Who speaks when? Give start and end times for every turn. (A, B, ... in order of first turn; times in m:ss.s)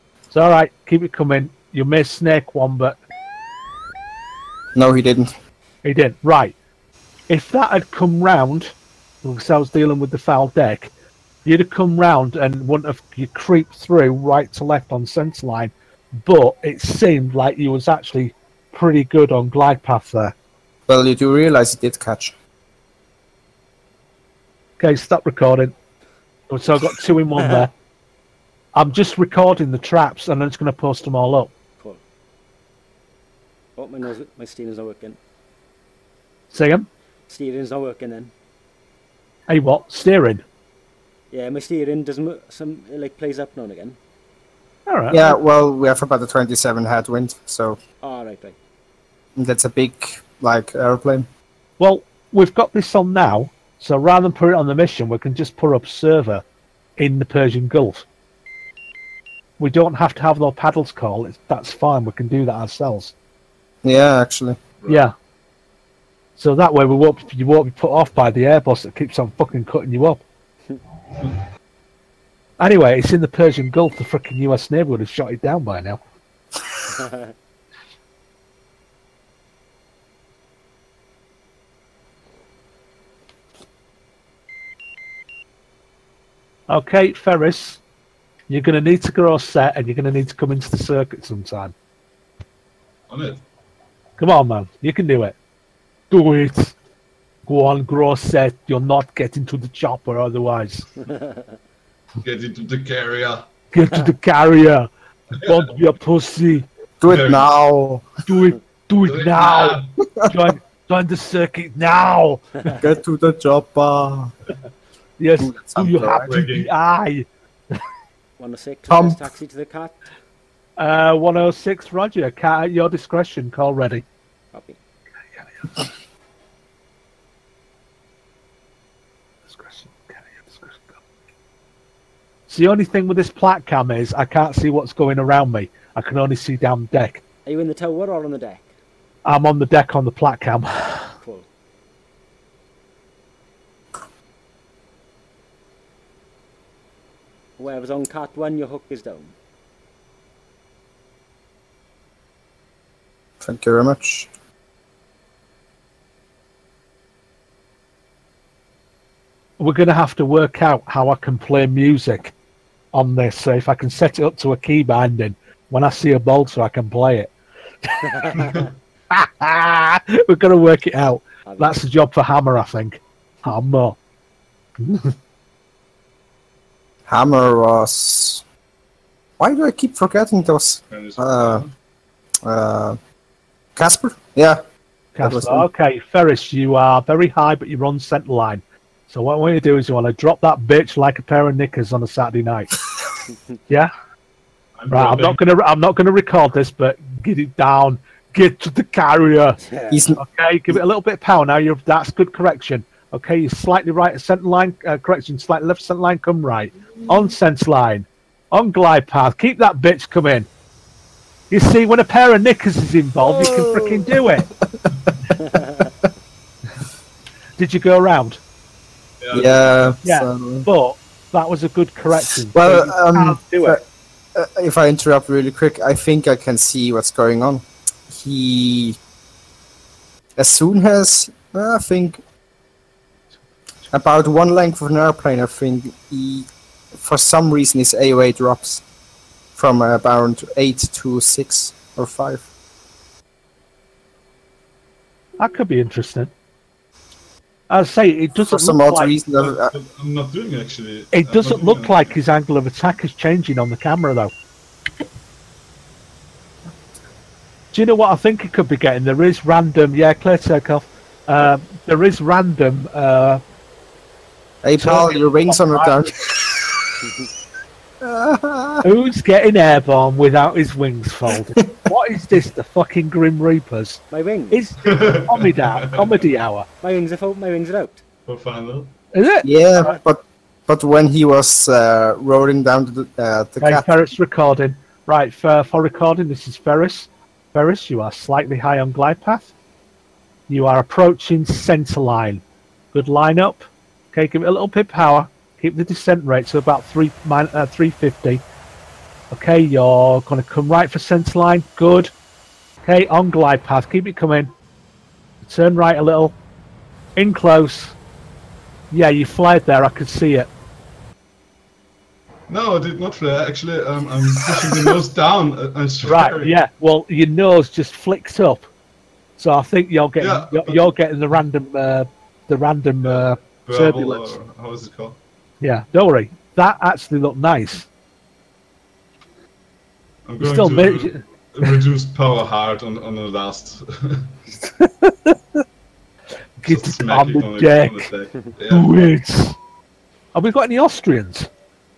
0:00.3-0:03.0 A
0:04.8-0:05.3 B
0:05.8-0:06.6 A
0:07.3-0:10.9 A
0:11.4-0:20.4 A
0:20.9-0:22.4 B
0:24.8-0:25.7 A
0:26.5-0:27.7 A
0:28.8-0:31.5 A
0:33.8-0:35.2 C
0:36.5-0:36.9 A
0:37.3-0:38.3 C
0:39.5-0:40.4 A
0:41.3-0:44.0 C
0:44.9-0:45.4 A
0:45.1-0:47.8 B
0:48.0-0:48.6 C
0:49.4-0:51.3 B
0:51.8-0:56.4 A
0:57.0-0:58.0 A
0:59.6-1:03.1 A
1:03.8-1:04.6 B
1:04.9-1:05.1 A
1:06.4-1:10.2 A
1:12.6-1:16.0 A
1:16.9-1:17.3 C
1:26.7-1:27.8 A
1:28.5-1:31.7 A
1:33.1-1:33.4 D
1:34.2-1:35.4 A
1:36.1-1:36.8 A
1:37.5-1:40.9 A
1:41.0-1:41.5 C
1:42.2-1:43.5 D
1:43.7-1:44.9 A
1:45.4-1:46.7 A
1:47.0-1:48.1 B
1:47.1-1:47.5 D
1:48.3-1:52.6 A
1:49.0-1:49.9 D
1:52.7-1:54.3 B
1:55.2-1:57.8 A
1:55.4-1:56.3 B
1:56.1-1:56.7 D
1:58.4-2:00.0 C
1:58.9-1:59.2 B
2:00.8-2:04.0 A
2:04.5-2:04.8 C
2:05.4-2:05.8 A
2:09.5-2:11.0 A
2:12.5-2:17.2 A
2:17.5-2:18.7 C
2:19.2-2:21.1 A
2:21.2-2:21.5 C
2:27.6-2:29.4 C
2:33.4-2:34.3 B
2:39.6-2:42.3 A
2:42.9-2:47.3 A
2:47.8-2:48.2 A
2:48.0-2:48.6 C
2:49.1-2:54.0 A
2:51.5-2:51.8 C
2:54.8-2:55.1 A
2:57.1-2:58.4 B
2:59.4-3:01.7 B
3:00.9-3:01.7 D
3:02.4-3:03.0 B
3:03.8-3:04.6 B
3:05.2-3:12.7 A
3:05.2-3:05.7 B
3:14.8-3:15.4 D
3:14.9-3:19.6 A
3:19.6-3:20.0 C
3:19.9-3:20.8 B
3:20.2-3:30.5 A
3:31.5-3:34.5 A
3:33.2-3:34.9 B
3:35.4-3:35.9 C
3:37.6-3:38.4 A
3:39.2-3:39.8 D
3:39.3-3:40.7 B
3:40.0-3:43.8 A
3:42.5-3:49.0 B
3:50.4-3:52.2 B
3:53.9-3:58.8 B
3:59.6-4:02.5 B
4:05.4-4:06.3 A
4:07.7-4:09.1 A
4:08.5-4:09.7 B
4:09.4-4:12.2 D
4:11.1-4:14.3 A
4:17.7-4:23.4 A
4:24.6-4:27.1 B
4:24.8-4:26.0 A
4:28.0-4:28.8 B
4:28.8-4:36.7 A
4:34.1-4:34.6 C
4:34.8-4:36.2 D
4:36.8-4:38.0 C
4:38.2-4:38.9 D
4:39.1-4:39.5 A
4:39.4-4:43.9 B
4:39.7-4:40.0 C
4:43.6-4:49.5 A
4:50.5-4:52.4 A
4:52.9-4:58.4 A
4:59.3-5:02.1 A
5:02.8-5:04.5 A
5:05.5-5:06.4 A
5:07.2-5:08.0 A
5:08.9-5:10.5 A
5:12.5-5:16.5 D
5:16.0-5:18.6 A
5:19.4-5:24.3 A
5:20.2-5:21.0 D
5:23.0-5:25.2 D
5:25.6-5:27.9 A
5:30.3-5:34.4 D
5:30.4-5:31.8 A
5:34.8-5:35.6 A
5:36.6-5:38.1 A
5:36.6-5:38.9 D
5:38.7-5:39.6 A
5:40.3-5:41.5 A